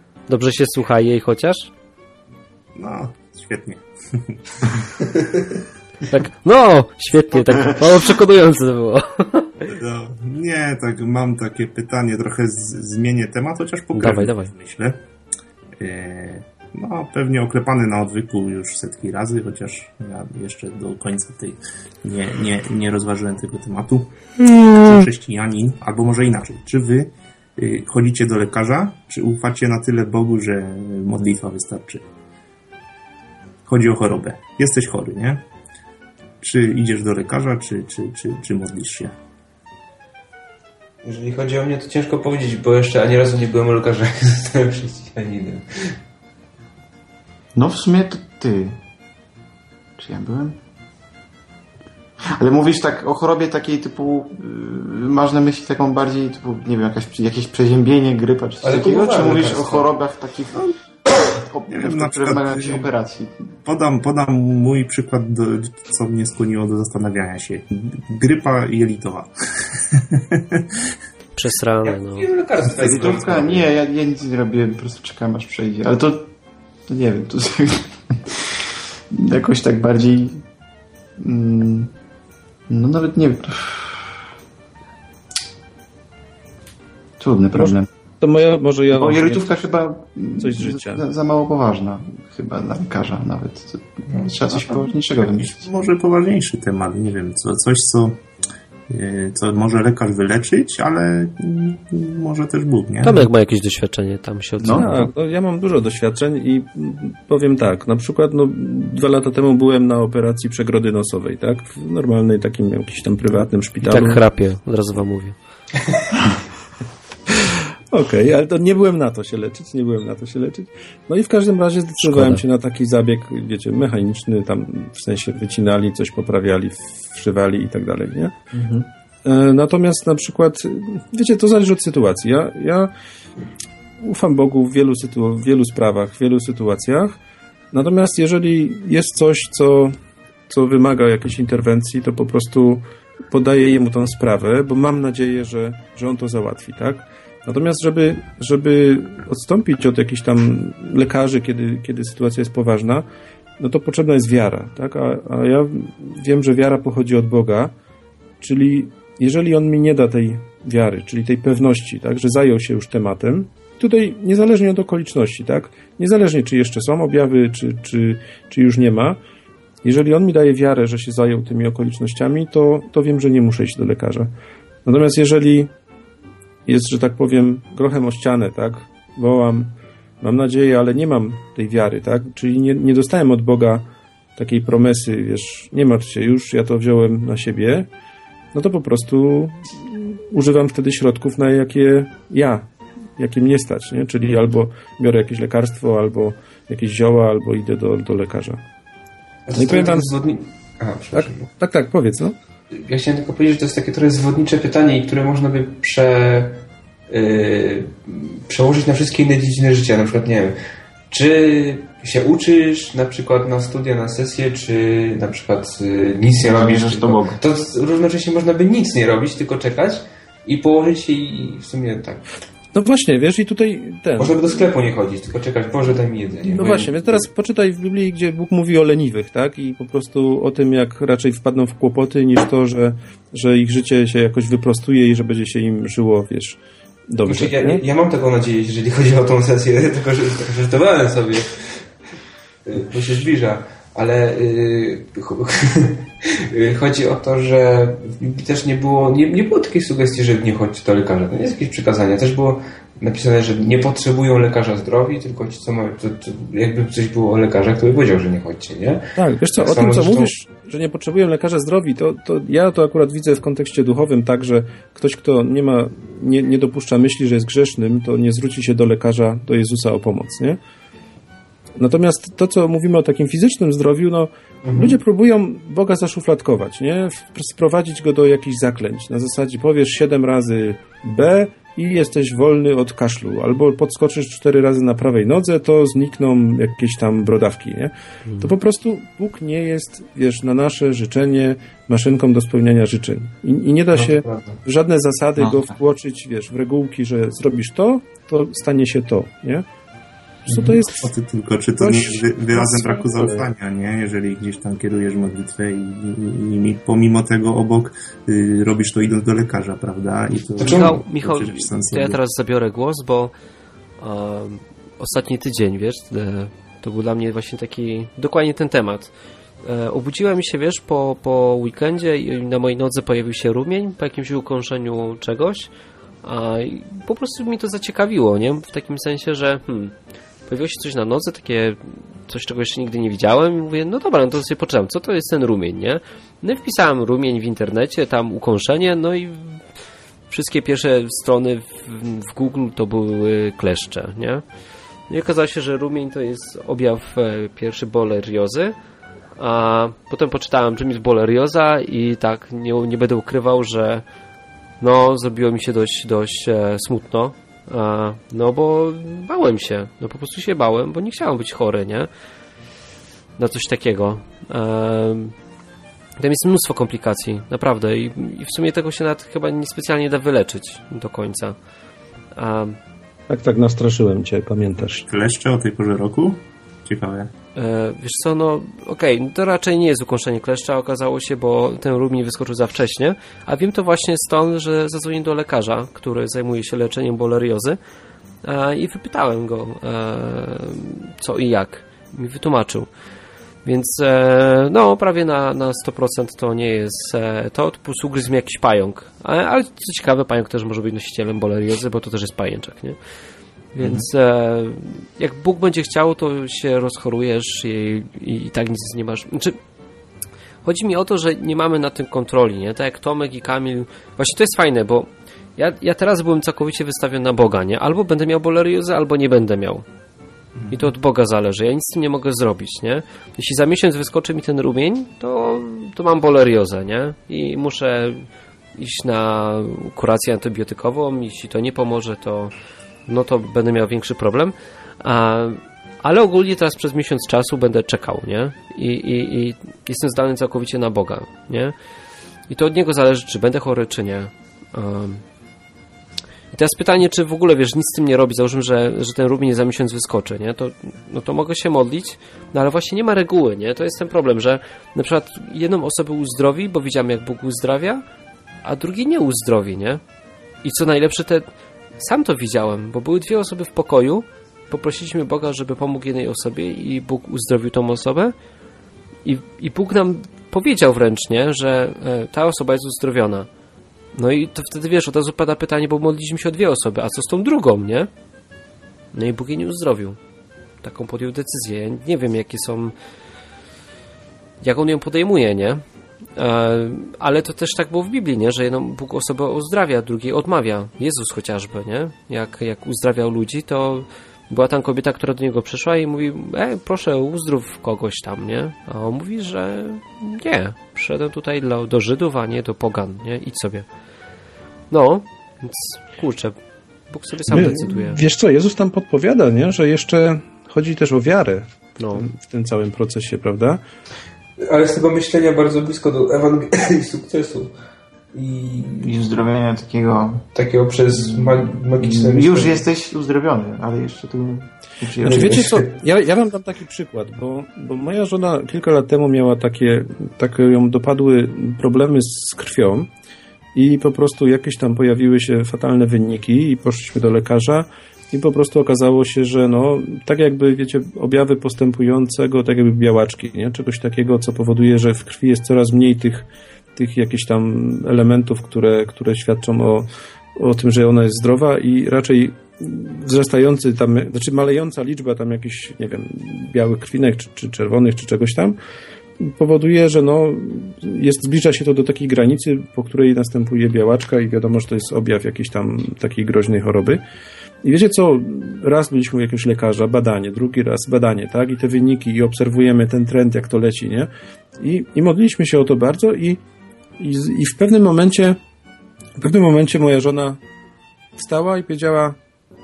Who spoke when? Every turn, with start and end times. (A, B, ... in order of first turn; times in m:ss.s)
0:00.3-0:01.7 A
0:02.7-0:04.4 B
0:06.1-0:09.7 A
0:09.7-0:15.0 B
0:14.0-0:14.5 A
0:15.8-0:32.0 B
0:33.6-0:35.4 B
0:36.4-0:39.2 B
0:41.0-0:45.9 C
0:47.5-0:48.8 D
0:50.0-0:50.6 D
0:52.3-1:00.7 D
0:58.6-0:59.9 C
1:01.4-1:03.5 D
1:01.7-1:02.9 B
1:03.6-1:10.6 B
1:11.4-1:12.3 A
1:11.8-1:13.7 C
1:12.6-1:16.3 D
1:16.9-1:20.4 D
1:21.2-1:21.9 D
1:22.7-1:24.1 D
1:27.2-1:27.9 D
1:27.5-1:29.4 E
1:28.9-1:35.6 D
1:30.4-1:31.0 E
1:34.1-1:34.6 C
1:35.2-1:38.2 B
1:38.9-1:43.3 B
1:43.0-1:45.1 A
1:44.6-1:44.9 D
1:44.7-1:54.2 E
1:53.8-1:55.4 A
1:57.3-2:12.9 E
2:02.0-2:02.4 A
2:14.0-2:17.2 E
2:17.7-2:19.9 E
2:20.5-2:33.0 E
2:33.6-2:37.7 E
2:38.4-2:49.2 E
2:49.8-2:54.3 E
2:54.8-2:55.7 E
2:56.6-3:03.8 E
3:04.4-3:07.9 E
3:08.5-3:12.6 E
3:13.2-3:18.6 E
3:19.5-3:21.5 C
3:19.5-3:20.2 E
3:21.1-3:22.4 E
3:22.7-3:30.6 C
3:31.1-3:42.3 C
3:36.4-3:37.4 D
3:42.7-3:44.6 E
3:44.2-3:47.3 C
3:46.4-3:57.8 E
3:57.2-4:01.8 C
4:02.6-4:20.3 C
4:19.2-4:30.6 E
4:31.8-4:59.6 E
4:34.6-4:35.0 C
4:48.2-4:48.5 A
4:53.9-4:54.6 C
4:55.4-4:55.7 D
5:00.5-5:01.1 E
5:00.5-5:00.7 C
5:00.9-5:12.2 B
5:01.8-5:03.5 E
5:10.6-5:11.0 C
5:10.6-5:13.3 A
5:14.0-5:19.1 A
5:19.6-5:25.7 A
5:26.2-5:29.9 A
5:30.5-5:39.6 A
5:40.3-5:44.4 A
5:45.1-5:48.8 A
5:49.4-5:54.0 A
5:54.8-6:02.1 A
6:03.4-6:05.3 A
6:06.2-6:11.5 A
6:12.3-6:12.8 A
6:13.3-6:15.0 E
6:15.0-6:17.3 B
6:17.6-6:27.8 A
6:28.4-6:32.9 A
6:33.6-6:43.0 A
6:43.8-6:44.0 C
6:43.8-6:49.6 A
6:50.6-6:59.8 A
7:00.7-7:08.2 A
7:08.8-7:12.5 A
7:13.1-7:21.7 A
7:22.5-7:25.2 A
7:26.5-7:38.0 A
7:38.6-7:40.0 A
7:40.6-7:41.4 A
7:42.0-7:48.3 A
7:49.2-7:53.5 A
7:54.1-7:58.1 A
7:59.1-8:00.2 A
8:00.8-8:02.9 A
8:04.6-8:05.8 A
8:06.4-8:23.9 A
8:24.9-8:26.6 A
8:27.1-8:28.2 A
8:27.5-8:33.8 E
8:32.0-8:32.2 A
8:34.6-8:37.7 C
8:38.3-8:39.1 C
8:39.0-8:40.4 D
8:40.5-8:42.8 C
8:41.2-8:45.6 D
8:45.2-8:53.1 E
8:45.2-8:45.9 C
8:53.7-9:18.8 E
9:19.4-9:27.2 E
9:27.8-9:36.6 E
9:37.2-9:38.6 E
9:39.4-9:40.6 E
9:41.4-9:42.4 E